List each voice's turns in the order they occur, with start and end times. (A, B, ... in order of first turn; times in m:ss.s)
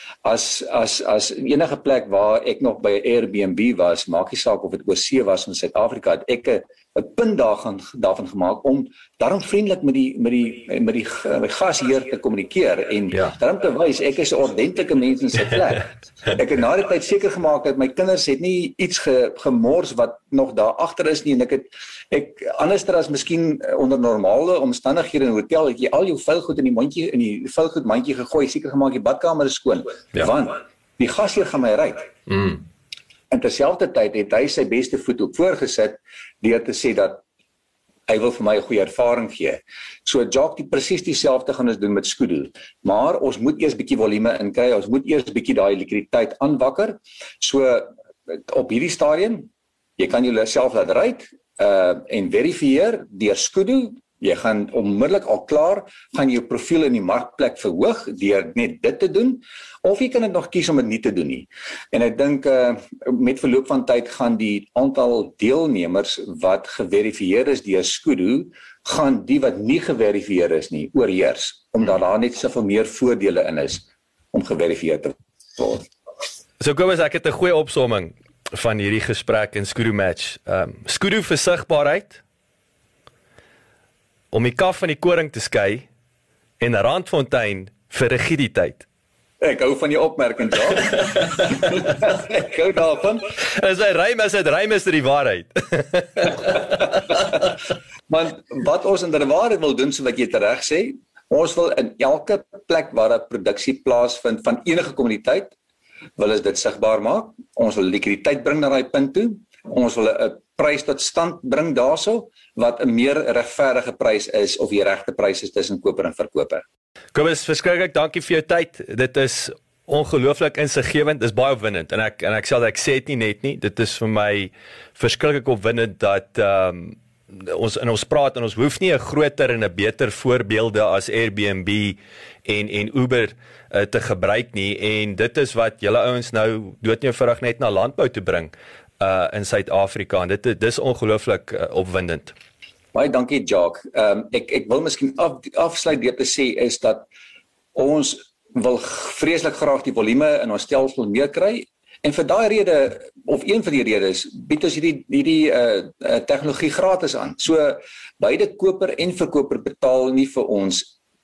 0:00.2-0:32.1 A
0:33.3-0:37.2 A
0:38.1-1:15.9 A
1:16.6-1:22.2 B
1:24.3-1:25.9 B
1:26.6-1:28.9 B
1:29.4-1:33.2 A
1:33.4-1:37.3 B
1:37.1-1:37.5 A
1:38.1-1:45.6 A
1:46.2-1:56.6 A
1:57.1-2:22.3 B
2:22.9-2:27.1 A
2:27.7-2:40.9 A